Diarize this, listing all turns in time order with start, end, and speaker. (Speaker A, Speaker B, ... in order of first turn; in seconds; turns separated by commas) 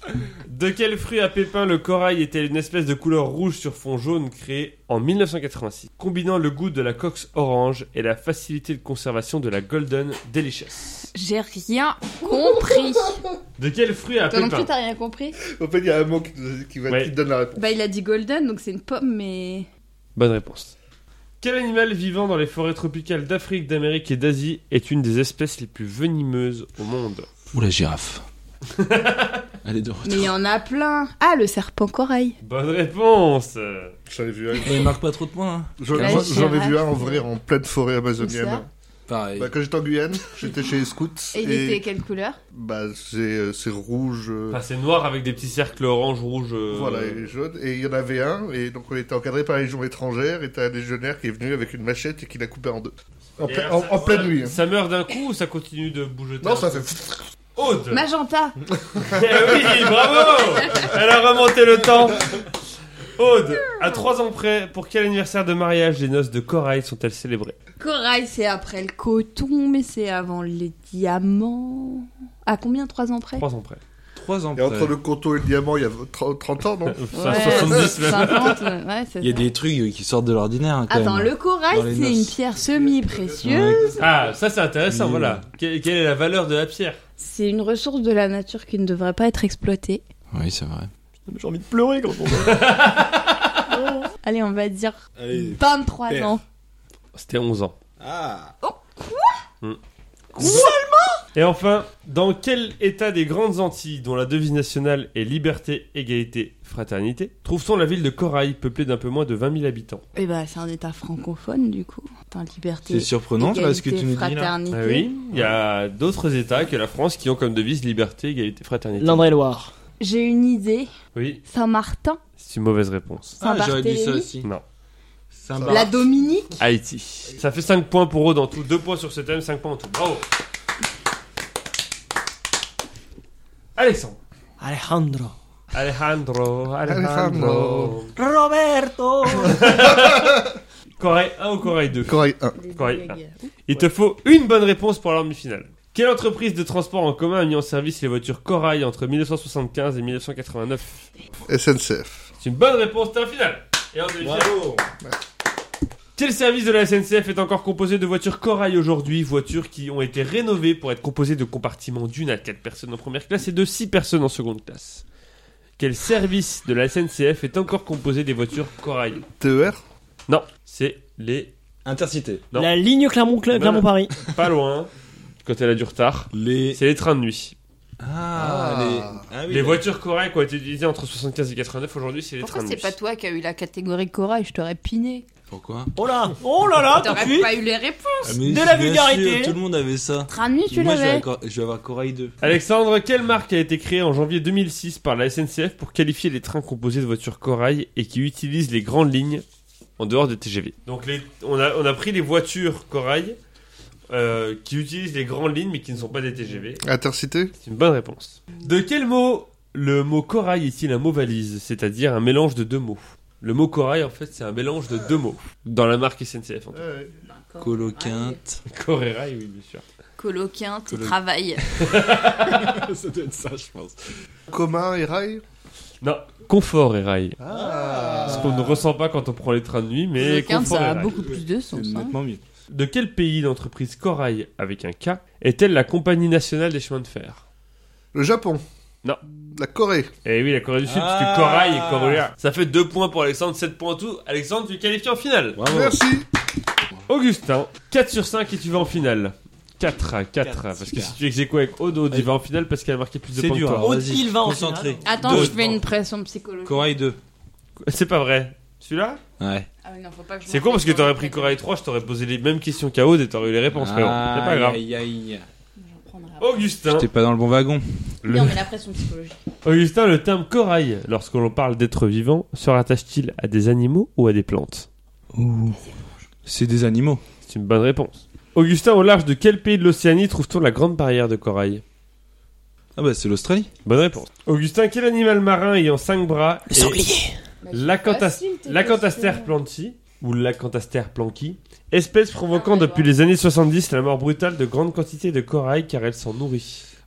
Speaker A: 0.3-11.1, Speaker B: 11.1-13.2, Speaker C: 12.2-13.2, Speaker A: 13.6-14.7, Speaker B: 14.3-15.3, Speaker C: 15.4-17.7, Speaker A: 16.9-17.1, Speaker B: 17.6-19.7, Speaker A: 20.1-20.7, Speaker A: 21.4-27.3, Speaker D: 27.5-28.2, Speaker A: 28.7-29.4, Speaker D: 29.6-30.3, Speaker B: 30.0-32.4, Speaker A: 32.4-33.9, Speaker C: 34.1-35.0, Speaker D: 34.6-36.5, Speaker C: 35.8-38.7, Speaker B: 36.0-37.2, Speaker B: 38.2-38.6, Speaker D: 39.1-39.5, Speaker C: 39.4-41.8, Speaker B: 41.3-42.4, Speaker C: 42.5-44.6, Speaker A: 44.5-47.3, Speaker C: 46.7-54.5, Speaker A: 53.4-56.9, Speaker C: 56.4-57.2, Speaker A: 57.5-58.0, Speaker B: 57.9-58.6, Speaker C: 58.9-59.9, Speaker A: 59.1-62.5, Speaker A: 63.1-67.5, Speaker B: 67.8-73.5, Speaker A: 73.4-73.8, Speaker D: 74.1-74.9, Speaker C: 74.5-78.2, Speaker A: 76.9-78.6, Speaker B: 77.1-79.4, Speaker D: 77.3-78.1, Speaker D: 79.2-82.4, Speaker B: 80.9-84.0, Speaker D: 83.4-84.1, Speaker A: 84.0-87.0, Speaker D: 84.9-85.4, Speaker B: 87.2-90.0, Speaker D: 90.3-90.9, Speaker E: 91.3-92.6, Speaker A: 92.4-93.7, Speaker B: 93.7-96.4, Speaker D: 95.2-96.3, Speaker A: 97.1-97.7, Speaker D: 98.0-98.5, Speaker B: 98.6-99.4, Speaker B: 100.3-101.1, Speaker E: 100.4-100.7, Speaker A: 101.3-110.0, Speaker B: 110.1-115.1, Speaker D: 112.9-114.5, Speaker A: 114.7-119.3, Speaker E: 119.0-119.7, Speaker B: 120.0-120.9, Speaker A: 121.1-121.4, Speaker B: 121.5-122.2, Speaker A: 122.4-123.4, Speaker D: 123.4-124.5, Speaker B: 123.4-124.3, Speaker D: 125.3-125.9, Speaker C: 125.5-125.9, Speaker B: 125.7-126.6, Speaker A: 126.6-130.2, Speaker A: 133.8-134.2, Speaker E: 134.6-135.3, Speaker A: 135.7-138.1, Speaker C: 136.9-138.0, Speaker E: 137.0-139.6, Speaker A: 139.3-140.4, Speaker A: 141.0-142.2, Speaker C: 142.1-142.6, Speaker B: 142.6-143.3, Speaker A: 142.8-151.1, Speaker C: 151.5-152.3, Speaker A: 152.4-154.6, Speaker D: 154.2-154.9, Speaker A: 156.2-165.0, Speaker A: 165.8-169.2, Speaker C: 169.4-169.8, Speaker A: 170.3-171.5, Speaker D: 171.8-172.4, Speaker E: 172.5-174.2, Speaker A: 173.5-174.9, Speaker A: 175.4-177.5, Speaker D: 176.3-176.8, Speaker D: 178.0-179.8, Speaker C: 178.3-179.2, Speaker A: 179.5-182.9, Speaker B: 182.4-185.3, Speaker D: 185.5-185.9, Speaker E: 185.9-187.5, Speaker B: 186.9-188.4, Speaker D: 188.2-192.3, Speaker E: 188.4-189.6, Speaker B: 190.3-191.2, Speaker A: 192.4-199.4, Speaker A: 200.0-203.4, Speaker A: 204.1-206.8, Speaker C: 206.8-207.5, Speaker A: 207.5-216.8, Speaker C: 216.7-217.1, Speaker B: 217.5-218.3, Speaker D: 217.6-218.6, Speaker A: 218.7-219.8, Speaker B: 220.2-221.6, Speaker D: 220.9-221.2, Speaker D: 221.7-224.0, Speaker A: 221.8-222.8, Speaker C: 224.5-225.4, Speaker A: 226.0-227.4, Speaker C: 227.4-228.7, Speaker D: 227.5-228.8, Speaker A: 228.2-231.1, Speaker B: 230.2-232.1, Speaker D: 231.2-232.4, Speaker A: 232.7-237.4, Speaker C: 238.1-238.6, Speaker C: 239.5-240.1, Speaker A: 240.2-245.6, Speaker D: 240.8-242.2, Speaker D: 245.5-246.0, Speaker C: 245.7-246.2, Speaker A: 247.1-254.0, Speaker D: 250.4-251.2, Speaker D: 253.3-255.8, Speaker E: 253.8-255.0, Speaker B: 255.0-256.9, Speaker A: 255.1-255.8, Speaker D: 256.6-257.2, Speaker A: 257.8-259.2, Speaker D: 259.4-259.7, Speaker B: 259.8-261.6, Speaker A: 260.5-264.8, Speaker D: 263.7-265.5, Speaker B: 265.8-266.7, Speaker A: 266.4-267.1, Speaker D: 266.9-268.2, Speaker A: 268.2-268.5, Speaker B: 268.2-269.4, Speaker A: 269.6-274.9, Speaker D: 275.3-275.8, Speaker D: 276.4-277.2, Speaker A: 277.4-281.8, Speaker D: 282.9-283.7, Speaker A: 283.8-287.0, Speaker E: 286.7-287.4, Speaker B: 287.6-289.5, Speaker A: 287.7-296.9, Speaker B: 292.5-293.1